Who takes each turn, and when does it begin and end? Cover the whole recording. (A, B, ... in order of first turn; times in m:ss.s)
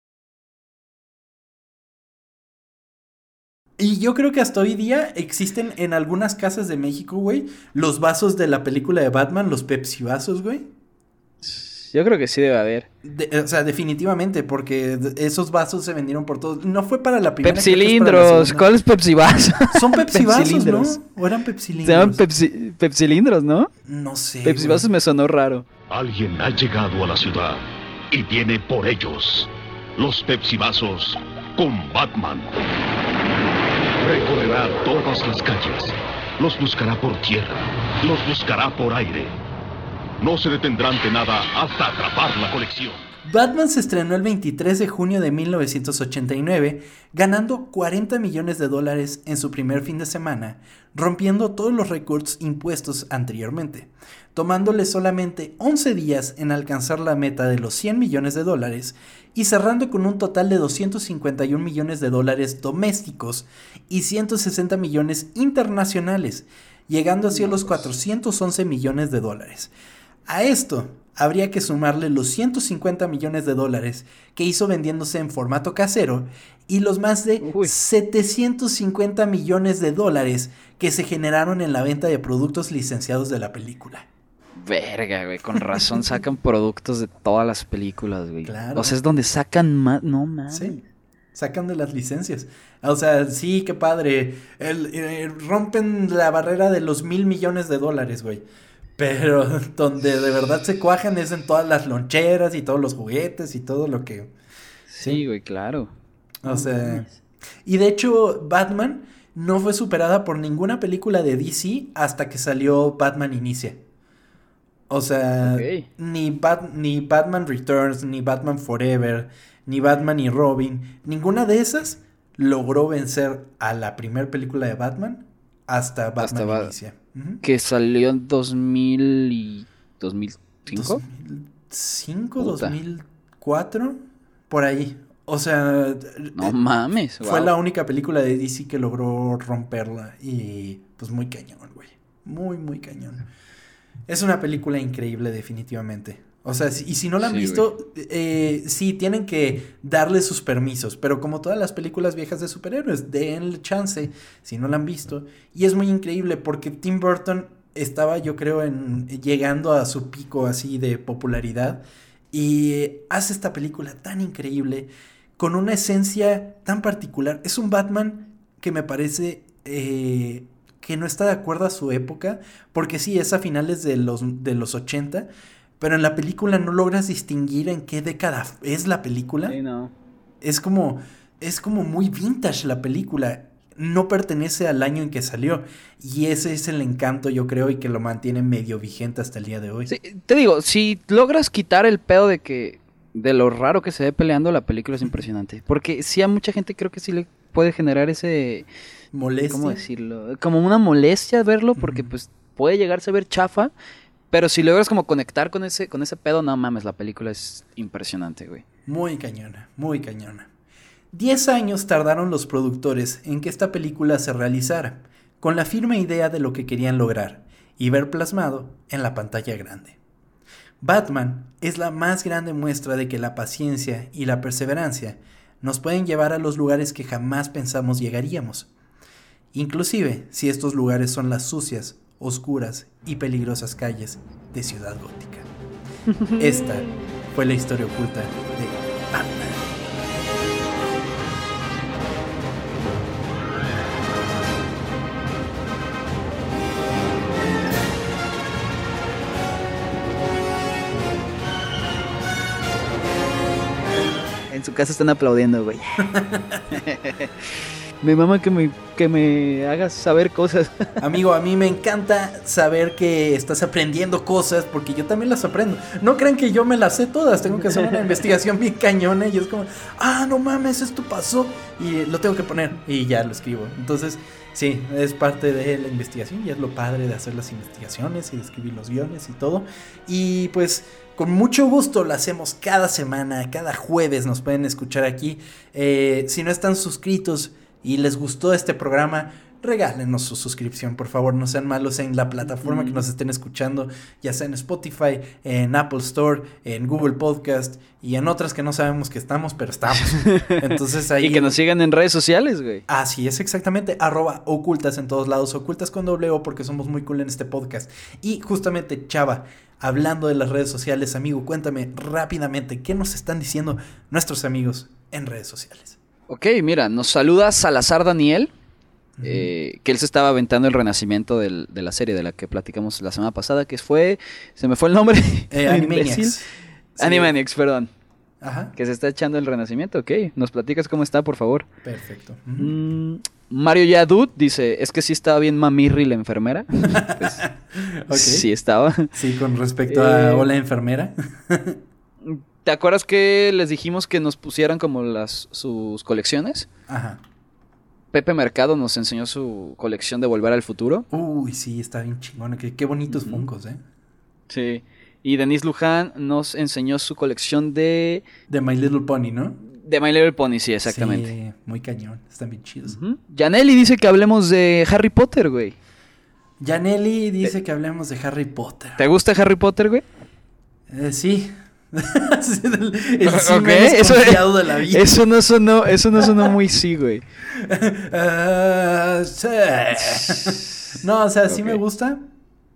0:03.8-0:10.7 A
0:11.4-0:12.9 B
0:13.0-0:18.7 A
0:17.4-0:21.0 B
0:19.7-0:22.2 A
0:21.8-0:23.7 B
0:23.8-0:24.9 A
0:24.4-0:25.7 B
0:25.9-0:32.6 C
0:34.0-0:39.4 C
0:40.2-0:43.0 C
0:43.3-1:09.7 A
1:07.3-1:07.8 B
1:10.3-1:24.1 A
1:17.4-1:17.7 B
1:24.6-1:30.8 B
1:28.4-1:29.0 A
1:30.5-1:30.8 A
1:31.3-1:38.4 A
1:39.0-1:44.3 A
1:44.9-1:45.9 B
1:46.4-1:47.1 A
1:46.4-1:47.2 B
1:47.6-1:53.8 A
1:54.9-2:07.4 A
1:55.4-1:55.9 B
2:06.2-2:06.7 B
2:07.4-2:11.0 B
2:10.7-2:16.5 A
2:12.4-2:12.8 B
2:16.4-2:17.5 B
2:17.2-2:23.3 A
2:24.1-2:55.3 A
2:27.2-2:27.7 B
2:55.8-2:59.6 A
2:59.5-2:59.9 B
3:00.4-3:09.9 A
3:09.9-3:18.7 B
3:19.1-3:19.8 A
3:19.5-3:23.7 B
3:21.8-3:22.1 A
3:24.3-3:28.6 B
3:28.9-3:30.5 A
3:31.1-3:40.0 A
3:40.8-3:48.7 A
3:49.5-3:55.5 A
3:56.1-3:56.7 B
3:56.4-4:00.0 A
4:14.5-4:16.1 B
4:16.1-4:16.8 A
4:16.7-4:17.4 B
4:18.0-4:20.9 B
4:21.0-5:01.6 A
4:52.6-4:53.0 B
5:00.0-5:02.8 B
5:02.9-5:16.0 A
5:16.3-5:18.5 B
5:19.2-5:19.5 A
5:19.2-5:26.4 B
5:25.5-5:27.3 A
5:27.0-5:27.9 B
5:28.4-5:28.7 A
5:28.8-5:31.7 B
5:31.8-5:32.8 A
5:32.6-5:37.5 B
5:37.0-5:38.5 A
5:38.1-5:39.2 B
5:39.1-5:41.8 A
5:39.9-5:40.5 B
5:42.2-5:46.7 B
5:46.9-5:47.2 A
5:48.1-5:51.1 B
5:51.1-5:53.8 A
5:53.1-5:53.4 B
5:54.5-5:58.2 B
5:58.5-5:59.6 A
5:59.6-6:01.3 B
6:00.8-6:03.0 A
6:02.9-6:05.8 B
6:06.6-6:09.0 A
6:09.0-6:10.0 B
6:10.9-6:15.1 A
6:13.2-6:17.2 B
6:17.5-6:22.2 A
6:20.0-6:21.0 B
6:21.5-6:21.8 B